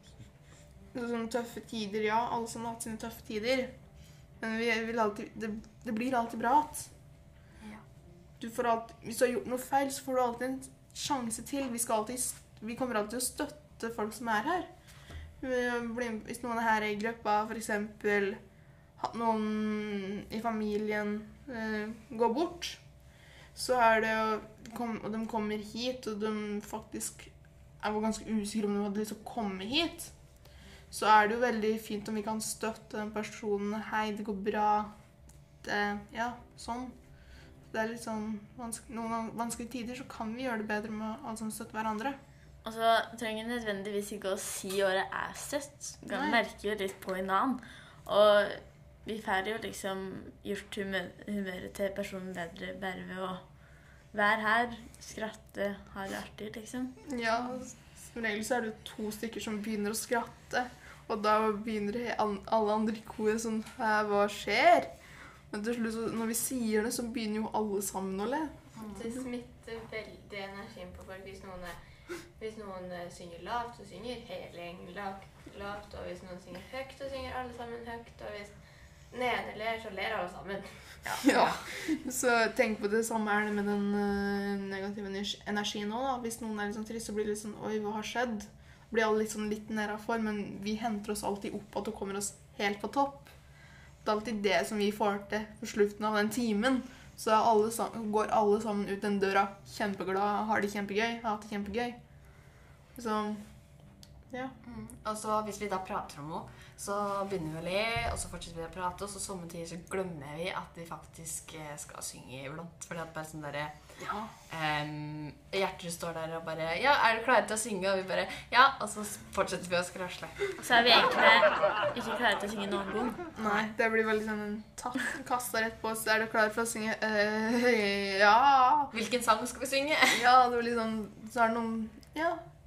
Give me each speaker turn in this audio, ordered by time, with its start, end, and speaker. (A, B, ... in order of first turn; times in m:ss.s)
0:00.9-0:03.7 A
0:04.4-0:06.9 A
0:08.4-0:14.7 A
0:15.4-0:18.4 A
0:19.0-0:22.8 A
0:23.6-0:30.1 A
0:30.9-0:34.9 A
0:35.6-0:37.0 A
0:37.7-0:42.2 A
0:42.6-0:53.4 B
0:46.1-0:46.4 A
0:54.1-0:57.0 B
0:57.1-1:04.9 A
1:05.5-1:09.3 A
1:08.8-1:09.0 C
1:08.9-1:11.8 D
1:12.4-1:18.6 D
1:19.1-1:21.1 D
1:21.1-1:21.7 C
1:21.1-1:33.3 A
1:34.0-1:42.0 A
1:43.0-1:43.5 A
1:44.6-1:53.8 C
1:54.0-1:54.3 A
1:54.5-2:00.5 C
2:00.6-2:03.2 B
2:03.4-2:08.9 A
2:03.4-2:03.7 C
2:08.9-2:10.2 C
2:10.1-2:12.4 A